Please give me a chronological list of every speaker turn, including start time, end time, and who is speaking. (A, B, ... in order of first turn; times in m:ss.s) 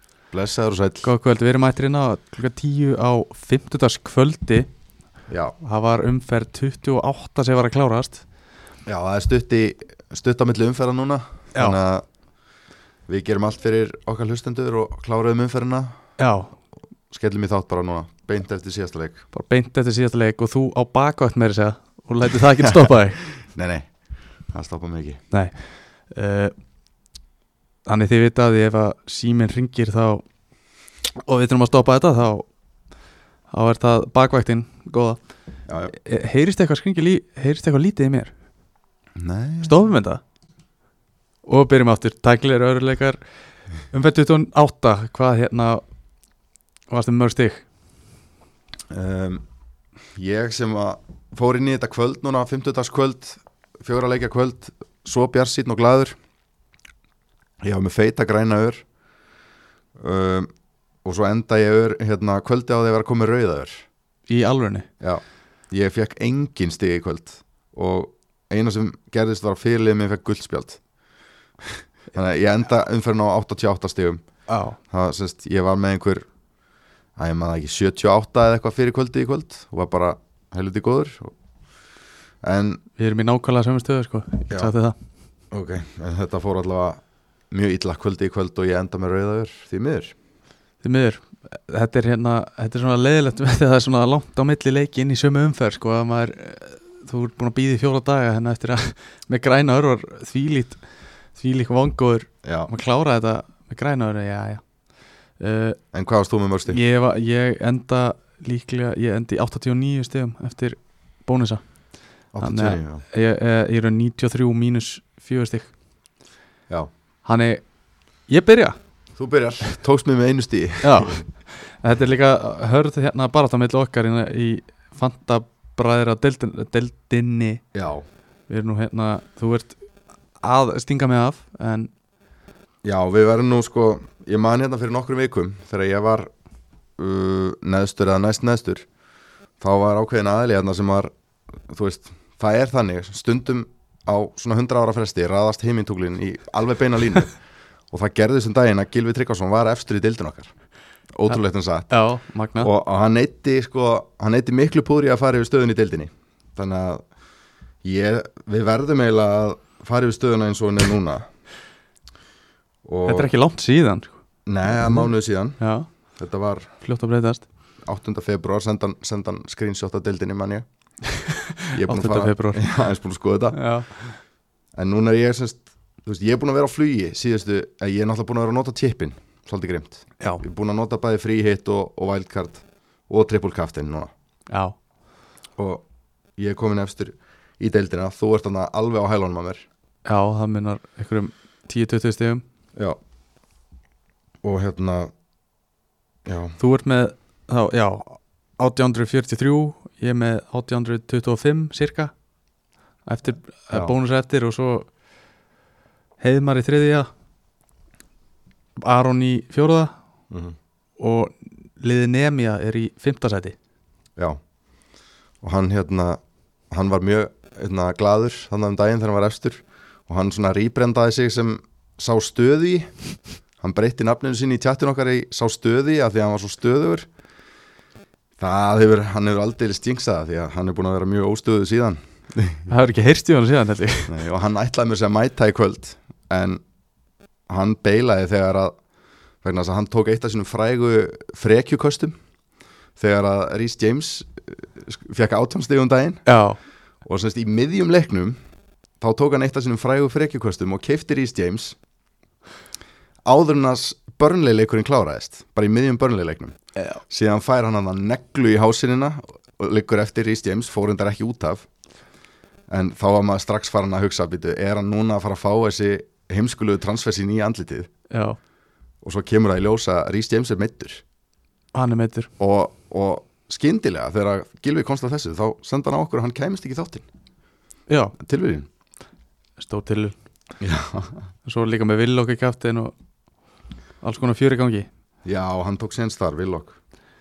0:00.3-0:01.1 A
0:01.0-0:04.7 B
0:05.3-0:05.6 A
0:05.6-0:08.2 B
0:08.9-0:12.0 A
0:13.1-0:16.0 A
0:16.2-0:16.5 B
0:17.1-0:19.2 A
0:19.3-0:23.2 B
0:22.6-0:23.9 A
0:24.5-0:25.2 A
0:25.3-0:26.5 B
0:27.9-0:30.2 B
0:31.2-0:32.5 B
0:33.5-0:35.2 B
0:35.7-0:35.9 A
0:35.9-0:38.3 B
0:39.2-0:39.8 A
0:39.6-0:40.2 B
0:41.4-0:43.2 B
0:43.9-0:45.8 B
0:46.9-0:47.7 B
0:48.9-0:49.4 A
0:50.2-0:56.2 A
0:57.6-0:58.8 A
1:00.0-1:00.5 A
1:01.0-1:03.8 A
1:04.3-1:04.9 B
1:05.0-1:10.8 A
1:11.6-1:14.2 A
1:14.5-1:14.8 B
1:14.9-1:16.2 A
1:17.2-1:21.4 A
1:22.4-1:22.8 A
1:23.0-1:25.0 B
1:25.5-1:30.1 A
1:30.8-1:40.8 B
1:41.4-1:44.6 B
1:42.4-1:42.7 A
1:45.4-1:45.8 B
1:45.9-1:46.8 A
1:46.7-1:51.6 B
1:52.3-1:53.0 A
1:52.4-1:55.7 B
1:57.2-1:57.6 B
1:58.3-1:58.8 B
1:59.2-2:01.2 A
2:00.8-2:07.6 B
2:07.7-2:08.0 A
2:08.5-2:09.8 B
2:10.4-2:11.9 B
2:12.8-2:16.3 A
2:17.0-2:18.9 A
2:19.6-2:27.3 A
2:27.9-2:30.5 A
2:31.1-2:31.9 A
2:31.9-2:32.7 B
2:32.6-2:37.0 A
2:37.8-2:41.3 A
2:42.8-2:43.3 A
2:43.1-2:44.2 B
2:44.5-2:45.6 A
2:44.7-2:45.1 B
2:45.6-2:45.9 B
2:46.2-2:46.7 A
2:46.8-2:47.4 B
2:47.9-2:50.7 A
2:51.1-2:52.6 B
2:51.7-2:53.6 A
2:53.5-2:54.2 B
2:54.7-3:04.1 A
3:04.5-3:04.8 B
3:05.6-3:05.8 A
3:06.4-3:09.7 A
3:10.0-3:12.4 B
3:14.4-3:15.1 A
3:16.2-3:16.6 A
3:16.6-3:22.1 B
3:23.1-3:24.9 B
3:26.2-3:27.1 B
3:28.8-3:29.9 B
3:30.3-3:30.6 A
3:31.0-3:33.6 B
3:35.4-3:36.2 A
3:36.7-3:42.9 A
3:43.6-3:47.1 A
3:48.4-3:52.6 A
3:52.7-3:54.2 B
3:54.1-3:56.6 A
3:57.5-3:58.8 A
3:59.4-4:02.2 A
4:03.0-4:06.2 A
4:06.3-4:06.6 B
4:07.0-4:08.4 A
4:09.0-4:11.8 A
4:13.2-4:16.6 A
4:17.1-4:21.7 A
4:22.7-4:27.9 A
4:28.1-4:28.4 B
4:29.0-4:31.0 A
4:31.7-4:32.3 B
4:32.4-4:37.1 A
4:37.9-4:38.2 B
4:38.2-4:38.7 A
4:39.6-4:40.2 B
4:40.6-4:41.3 A
4:41.4-4:42.9 B
4:44.0-4:44.9 B
4:45.2-4:46.8 A